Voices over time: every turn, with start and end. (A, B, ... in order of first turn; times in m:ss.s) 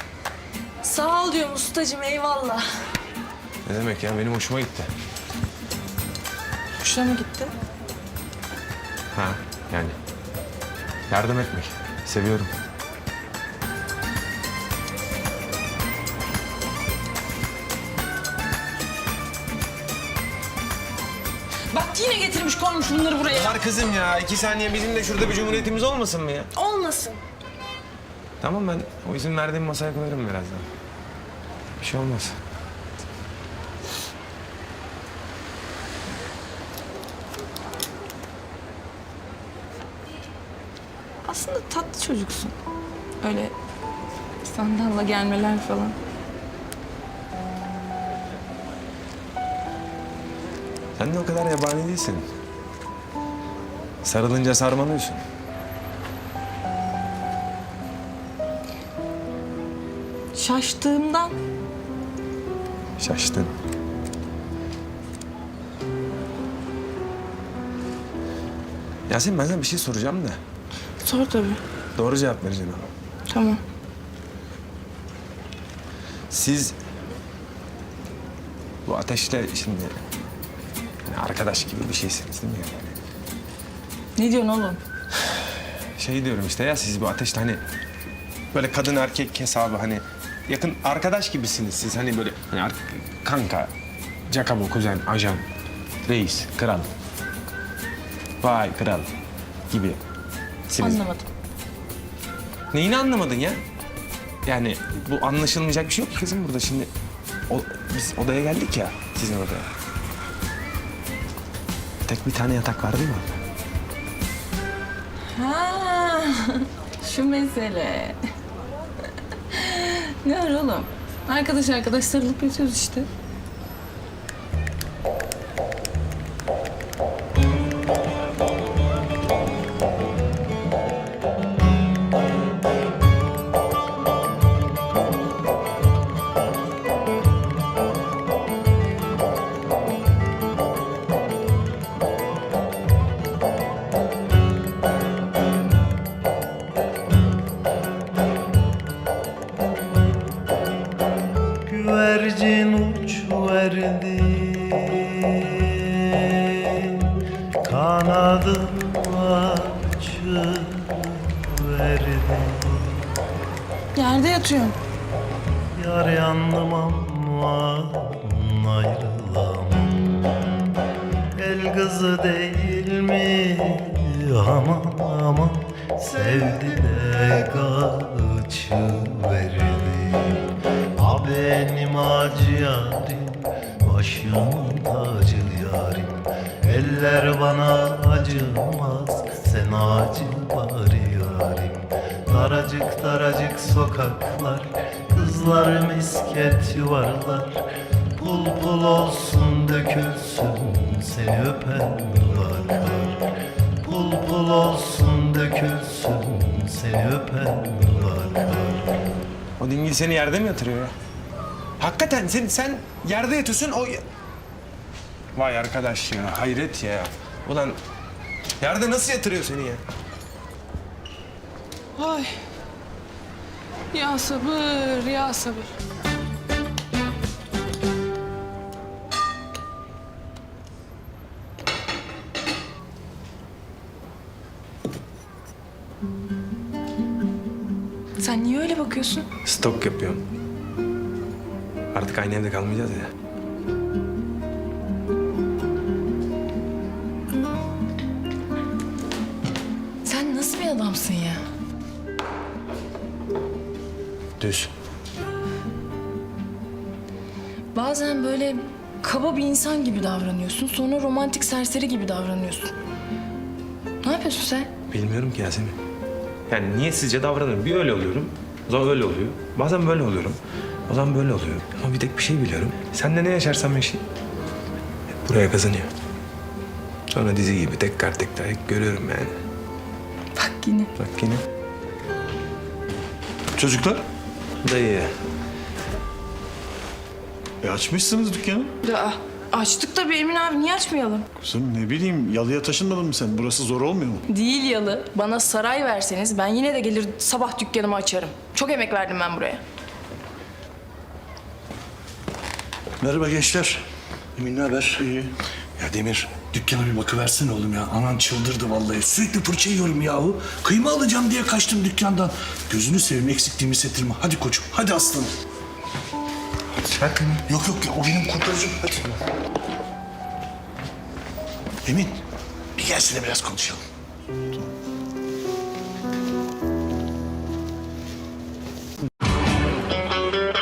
0:00.8-0:02.7 A
0:03.6-0:04.9 B
0:06.8-0:07.5 A
0:09.1-0:10.0 B
0:11.1-0:12.5 B
0:21.7-0:23.6 A
0:23.3-0:26.5 B
0:26.5-0:27.2 A
0:28.4-0:30.6 B
0:31.8-0:32.4 B
0:41.2-0:42.5 A
0:43.2-0:43.5 A
0:44.4-0:46.0 A
0:51.0-0:52.3 B
0:54.0-0:55.2 B
1:00.3-1:01.4 A
1:03.0-1:03.5 B
1:09.1-1:10.4 B
1:11.0-1:11.6 A
1:12.0-1:12.9 B
1:13.3-1:13.6 A
1:16.3-1:16.7 B
1:18.8-1:20.0 B
1:21.1-1:23.0 B
1:24.2-1:24.8 A
1:26.0-1:27.6 B
1:28.5-1:33.7 B
1:34.3-1:35.4 B
1:36.0-1:36.9 B
1:38.4-1:39.1 B
1:39.7-1:40.0 B
1:40.7-1:41.0 B
1:40.8-1:41.3 A
1:42.7-1:43.6 B
1:44.4-1:46.9 B
1:47.5-1:49.7 B
1:52.1-1:53.3 B
1:55.3-1:58.2 A
1:59.5-2:03.1 A
2:31.6-2:43.1 C
2:43.9-2:44.8 A
2:45.7-2:50.5 C
2:51.4-3:17.6 C
3:18.2-3:23.2 C
3:23.8-3:28.9 C
3:29.6-3:30.9 B
3:31.8-3:34.0 B
3:35.3-3:37.8 B
3:38.6-3:39.8 B
3:42.0-3:42.3 A
3:43.9-3:45.7 A
3:58.2-3:59.2 A
3:59.4-4:00.2 B
4:01.9-4:03.1 B
4:10.0-4:11.4 A
4:14.4-4:14.7 B
4:17.7-4:22.7 A
4:24.0-4:24.7 A
4:24.9-4:25.8 B
4:26.5-4:34.0 B
4:35.2-4:35.9 B
4:37.1-4:39.3 B
4:40.4-4:40.9 A
4:41.0-4:41.4 B
4:43.5-4:44.0 D
4:44.6-4:45.1 B
4:47.6-4:48.7 D
4:48.8-4:51.2 A
4:51.4-4:54.2 D
4:54.3-4:59.6 A
5:03.0-5:03.8 E
5:04.4-5:05.1 E
5:05.0-5:05.3 D
5:05.8-5:15.3 E
5:16.8-5:17.4 B
5:17.5-5:19.2 E
5:21.8-5:22.2 E
5:22.8-5:23.8 E